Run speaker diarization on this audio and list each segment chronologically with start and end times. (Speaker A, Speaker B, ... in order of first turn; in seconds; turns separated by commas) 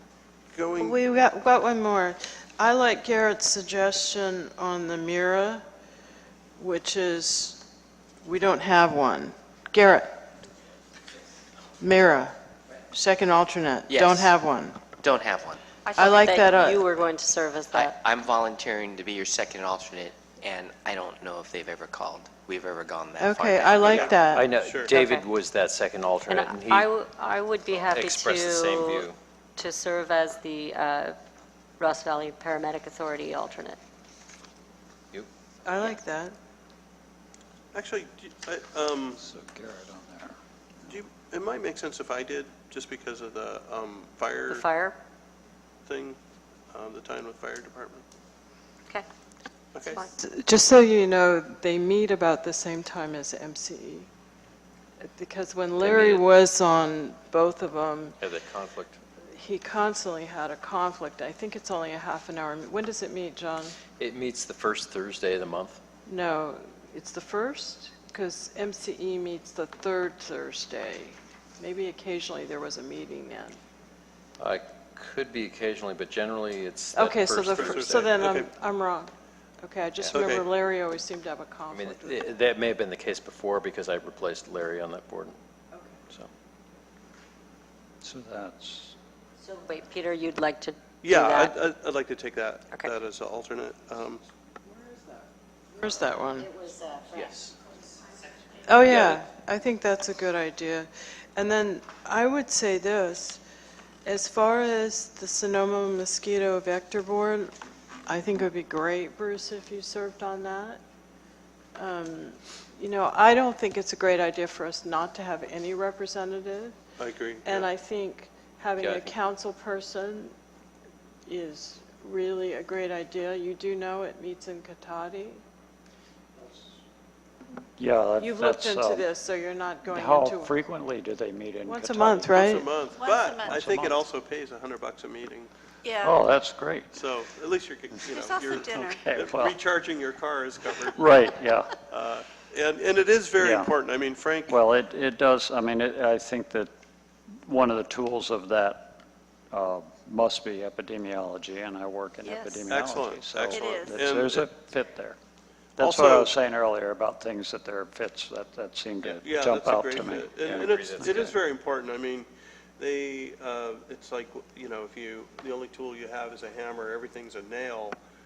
Speaker A: 0.5-1.0, Speaker B: 0.8-5.6, Speaker B: 6.6-7.6, Speaker B: 8.2-10.2, Speaker B: 11.8-12.3, Speaker B: 12.9-14.9, Speaker C: 13.9-14.3, Speaker C: 14.9-15.6, Speaker D: 15.8-17.9, Speaker B: 16.0-16.8, Speaker C: 17.7-24.2, Speaker B: 23.2-24.5, Speaker A: 23.9-24.9, Speaker E: 24.3-26.9, Speaker D: 24.9-25.2, Speaker D: 26.3-31.2, Speaker E: 27.7-29.2, Speaker D: 31.8-33.8, Speaker B: 35.6-36.4, Speaker A: 37.7-39.2, Speaker F: 39.2-41.0, Speaker A: 40.9-44.6, Speaker D: 44.5-45.0, Speaker A: 45.9-46.2, Speaker A: 46.7-48.0, Speaker A: 49.7-50.0, Speaker D: 49.8-50.1, Speaker B: 50.2-54.1, Speaker B: 55.0-58.2, Speaker E: 55.8-56.2, Speaker E: 58.2-59.0, Speaker B: 59.3-63.8, Speaker E: 64.0-65.8, Speaker B: 66.0-73.6, Speaker E: 74.4-78.2, Speaker B: 76.9-82.3, Speaker A: 77.5-78.5, Speaker A: 80.1-80.5, Speaker E: 81.7-85.4, Speaker B: 85.7-86.0, Speaker F: 88.0-88.9, Speaker D: 89.4-91.5, Speaker A: 91.0-94.2, Speaker B: 94.7-95.2, Speaker B: 95.7-96.5, Speaker D: 96.3-97.5, Speaker E: 97.1-97.5, Speaker B: 98.6-103.4, Speaker A: 98.8-99.2, Speaker B: 104.0-107.5, Speaker B: 108.0-110.8, Speaker B: 111.7-116.8, Speaker A: 117.0-117.7, Speaker B: 117.4-120.3, Speaker E: 118.8-119.1, Speaker B: 121.2-125.4, Speaker F: 127.8-129.1, Speaker B: 128.2-130.5, Speaker F: 129.8-132.4, Speaker B: 131.6-132.7, Speaker A: 132.3-135.5, Speaker G: 132.9-133.5, Speaker F: 133.2-134.0, Speaker G: 135.8-136.2, Speaker F: 136.0-137.0, Speaker A: 136.9-141.1, Speaker F: 138.0-139.6, Speaker G: 138.1-139.1, Speaker F: 140.9-141.8, Speaker A: 141.9-144.6, Speaker F: 143.4-143.7, Speaker F: 144.5-146.7, Speaker F: 147.4-149.0, Speaker F: 149.5-155.2, Speaker G: 152.2-152.6, Speaker A: 152.6-154.5, Speaker G: 153.5-153.9, Speaker F: 155.8-161.3, Speaker A: 155.8-156.3, Speaker A: 159.0-168.0, Speaker E: 160.4-161.4